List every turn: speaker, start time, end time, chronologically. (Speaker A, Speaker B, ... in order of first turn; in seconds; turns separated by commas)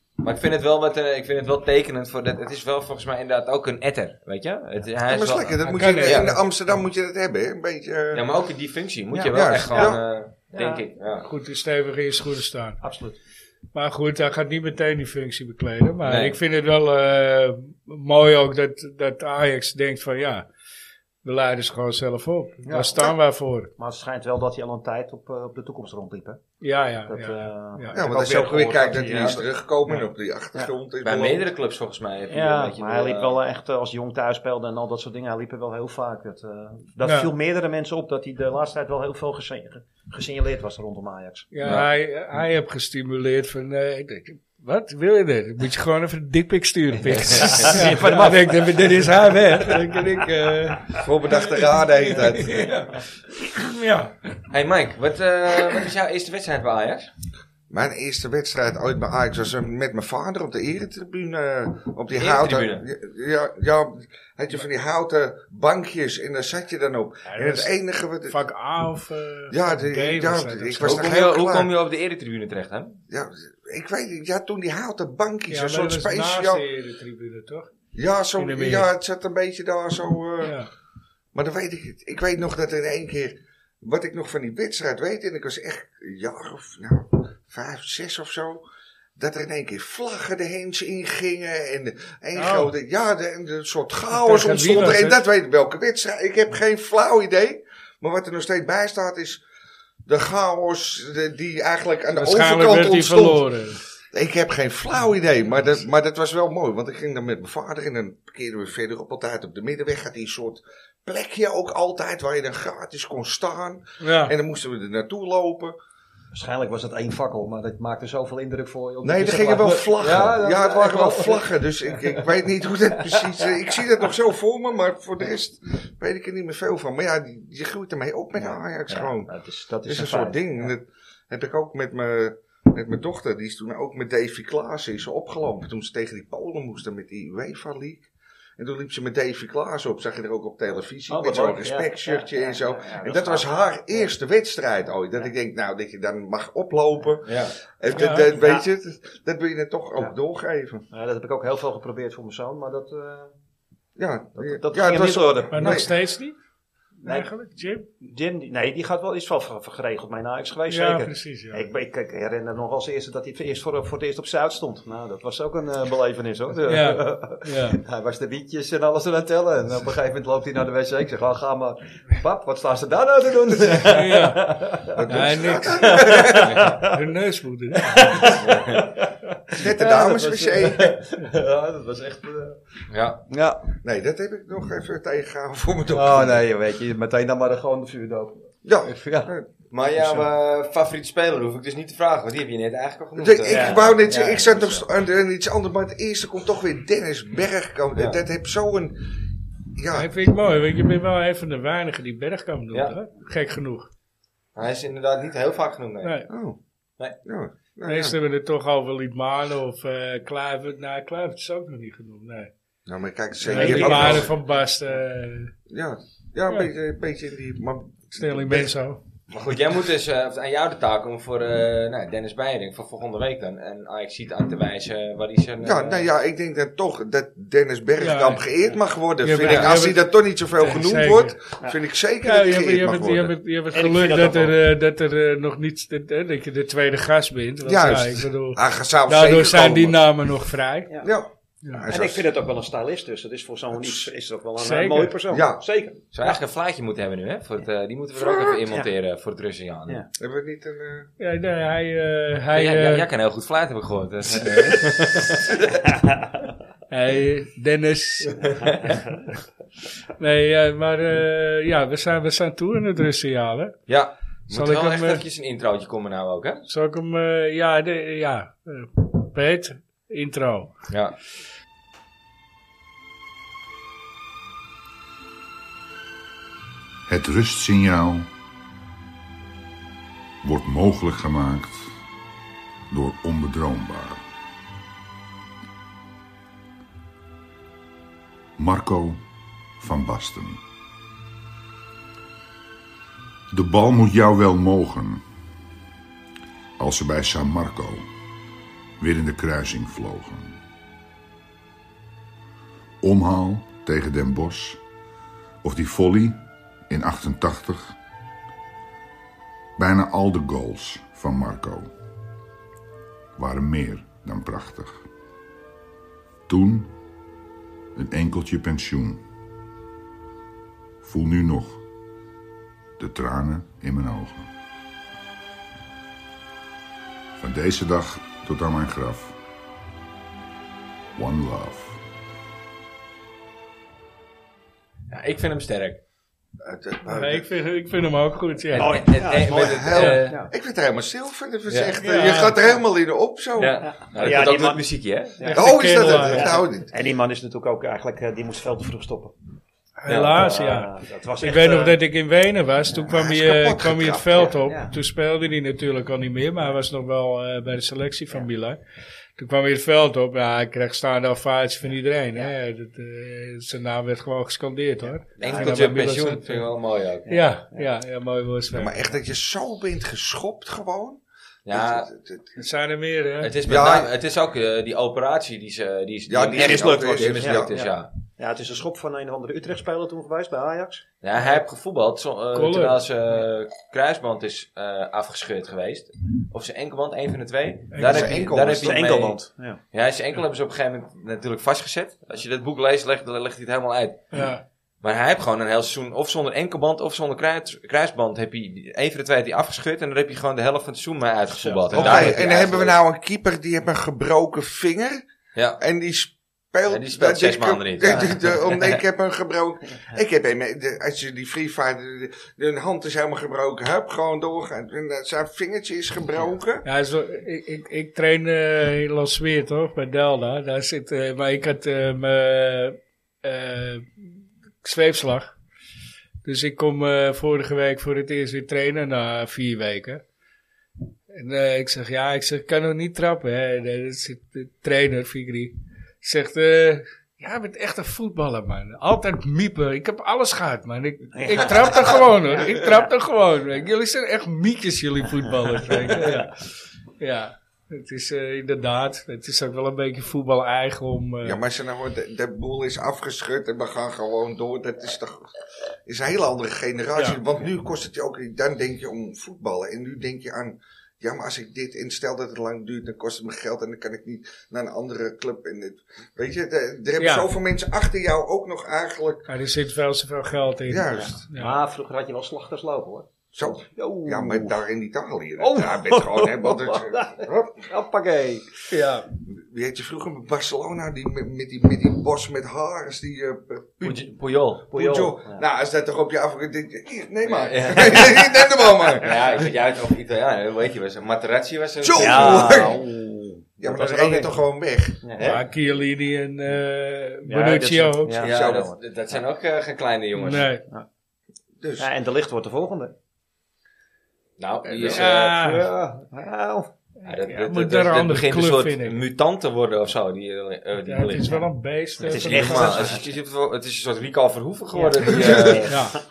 Speaker A: 0.2-6.3, Speaker B: 5.1-8.2, Speaker C: 5.6-6.4, Speaker A: 8.1-11.3, Speaker D: 9.1-9.9, Speaker B: 9.3-10.0, Speaker D: 10.5-10.8, Speaker C: 11.2-12.8, Speaker D: 12.8-13.2, Speaker C: 13.7-20.4, Speaker A: 16.0-16.4, Speaker C: 21.2-23.7, Speaker D: 22.6-23.1, Speaker D: 23.8-26.6, Speaker C: 26.6-28.0, Speaker D: 27.1-29.4, Speaker B: 27.9-31.4, Speaker A: 28.9-29.4, Speaker A: 31.0-33.4, Speaker D: 32.3-41.5, Speaker C: 37.0-37.3, Speaker C: 41.5-54.4, Speaker A: 41.6-41.9, Speaker A: 47.1-47.7, Speaker D: 47.2-50.0, Speaker B: 50.9-52.8, Speaker A: 54.5-57.1, Speaker B: 57.7-68.4, Speaker A: 62.1-62.9, Speaker C: 67.3-67.7, Speaker C: 68.3-71.1, Speaker B: 69.5-71.7, Speaker A: 70.8-73.0, Speaker B: 73.1-76.6, Speaker C: 75.5-77.7, Speaker B: 77.9-80.6, Speaker C: 78.4-78.9, Speaker C: 80.4-80.7, Speaker B: 81.3-88.6, Speaker B: 89.2-99.4, Speaker C: 92.3-92.7, Speaker C: 94.1-95.2, Speaker B: 100.0-103.5, Speaker C: 102.1-103.8, Speaker B: 104.1-115.8, Speaker C: 114.0-114.3, Speaker D: 116.3-122.3, Speaker B: 119.0-129.3, Speaker D: 122.9-123.7, Speaker D: 128.3-130.7, Speaker B: 129.8-150.8, Speaker D: 141.1-144.1, Speaker A: 147.2-147.5, Speaker C: 147.9-148.3, Speaker D: 148.3-148.6, Speaker D: 150.9-153.3, Speaker B: 154.0-155.9, Speaker D: 154.3-155.9, Speaker C: 155.5-156.3, Speaker D: 157.0-157.3, Speaker C: 157.0-157.9, Speaker D: 158.0-176.9, Speaker C: 160.7-161.7, Speaker C: 166.7-167.8, Speaker C: 173.8-174.5, Speaker B: 174.9-176.6, Speaker C: 175.1-178.3, Speaker A: 176.4-176.7, Speaker D: 177.8-183.7, Speaker A: 178.4-178.8, Speaker B: 179.5-181.0, Speaker A: 182.9-183.2, Speaker B: 183.8-186.4, Speaker D: 185.9-189.3, Speaker B: 188.6-189.5, Speaker A: 189.7-194.0, Speaker D: 189.9-190.3, Speaker B: 193.2-199.0, Speaker D: 193.5-194.8, Speaker B: 199.7-200.1, Speaker C: 199.9-203.9, Speaker A: 204.5-206.1, Speaker C: 206.0-206.3, Speaker B: 206.3-206.6, Speaker B: 207.2-208.2, Speaker C: 207.8-212.5, Speaker B: 212.8-214.3, Speaker C: 213.4-215.5, Speaker D: 213.5-213.8, Speaker B: 215.7-218.7, Speaker C: 218.2-219.0, Speaker A: 219.3-226.1, Speaker B: 225.6-233.3, Speaker C: 228.0-228.4, Speaker C: 229.2-231.3, Speaker A: 229.4-229.7, Speaker C: 232.2-240.9, Speaker D: 233.7-234.6, Speaker B: 237.6-240.1, Speaker B: 241.0-242.2, Speaker D: 241.9-246.4, Speaker C: 244.6-245.2, Speaker B: 245.3-245.6, Speaker A: 246.1-250.0, Speaker B: 248.2-248.6, Speaker B: 250.2-251.1, Speaker C: 251.2-253.1, Speaker A: 252.5-255.8, Speaker D: 254.4-255.0, Speaker C: 256.9-258.6, Speaker A: 258.5-259.0, Speaker C: 260.2-263.8, Speaker A: 263.9-266.6, Speaker C: 264.5-265.2, Speaker C: 266.7-270.7, Speaker A: 270.9-271.1, Speaker E: 277.1-278.3, Speaker E: 280.4-281.9, Speaker E: 282.9-284.2, Speaker E: 288.6-289.2, Speaker E: 289.8-290.6, Speaker E: 293.5-295.2, Speaker E: 296.8-298.1, Speaker E: 299.0-300.6, Speaker E: 303.0-304.8, Speaker E: 305.6-307.9, Speaker E: 309.8-311.9, Speaker E: 313.4-315.1, Speaker E: 316.5-316.9, Speaker E: 317.9-319.2, Speaker E: 321.0-321.8, Speaker E: 323.0-324.5, Speaker E: 327.4-329.4, Speaker E: 331.1-332.0, Speaker A: 335.1-336.0, Speaker B: 336.6-337.4, Speaker C: 337.0-339.0, Speaker A: 338.7-340.4, Speaker D: 338.7-340.5, Speaker B: 339.4-343.8, Speaker C: 339.9-340.2, Speaker A: 341.7-341.9, Speaker C: 342.0-342.6, Speaker A: 343.6-345.5, Speaker D: 343.8-344.9, Speaker D: 345.4-349.3, Speaker C: 345.4-346.6, Speaker B: 345.5-346.9, Speaker C: 350.0-358.8, Speaker A: 350.1-350.5, Speaker D: 350.3-352.0, Speaker B: 353.1-354.5, Speaker D: 354.3-354.9, Speaker C: 359.4-366.7, Speaker D: 365.0-365.9, Speaker A: 365.4-367.3, Speaker D: 367.2-367.9, Speaker C: 367.3-369.1, Speaker B: 368.7-372.6, Speaker A: 371.6-372.1, Speaker C: 372.6-373.5, Speaker A: 373.4-378.1, Speaker B: 373.6-374.1, Speaker B: 376.3-377.8, Speaker D: 376.5-381.6, Speaker A: 381.2-389.4, Speaker C: 382.5-383.0, Speaker C: 387.9-388.3, Speaker B: 388.0-389.0, Speaker D: 388.6-389.8, Speaker A: 389.9-394.2, Speaker C: 394.3-394.6, Speaker A: 395.0-403.0, Speaker D: 401.5-402.5, Speaker B: 401.9-405.2, Speaker A: 405.5-405.8, Speaker B: 405.8-416.8, Speaker A: 406.9-409.0, Speaker D: 408.0-408.4, Speaker C: 416.8-425.6, Speaker C: 426.4-430.2, Speaker C: 431.3-451.6, Speaker D: 441.3-443.1, Speaker D: 445.9-446.4, Speaker B: 451.4-455.5, Speaker B: 456.1-469.5, Speaker C: 467.2-467.5, Speaker C: 469.5-471.8, Speaker B: 470.9-471.4, Speaker D: 471.1-474.8, Speaker B: 473.5-477.8, Speaker D: 475.6-478.8, Speaker C: 478.9-479.2, Speaker B: 479.4-484.3, Speaker A: 484.0-484.9, Speaker B: 484.8-489.6, Speaker D: 484.9-485.6, Speaker A: 487.4-488.6, Speaker A: 489.1-492.9, Speaker B: 492.0-493.0, Speaker D: 492.2-494.6, Speaker B: 493.8-495.2, Speaker D: 495.2-495.6, Speaker A: 495.4-495.6, Speaker C: 495.4-498.4, Speaker D: 497.4-499.4, Speaker A: 498.4-500.7, Speaker B: 498.4-498.9, Speaker C: 500.4-500.8, Speaker B: 501.8-502.1, Speaker D: 502.0-503.1, Speaker A: 504.6-505.6, Speaker C: 504.8-505.9, Speaker D: 505.0-506.9, Speaker C: 507.2-509.2, Speaker A: 507.2-511.6, Speaker C: 511.1-513.2, Speaker D: 512.2-513.3, Speaker A: 512.2-515.9, Speaker D: 514.9-516.1, Speaker B: 515.2-515.9, Speaker C: 515.9-516.2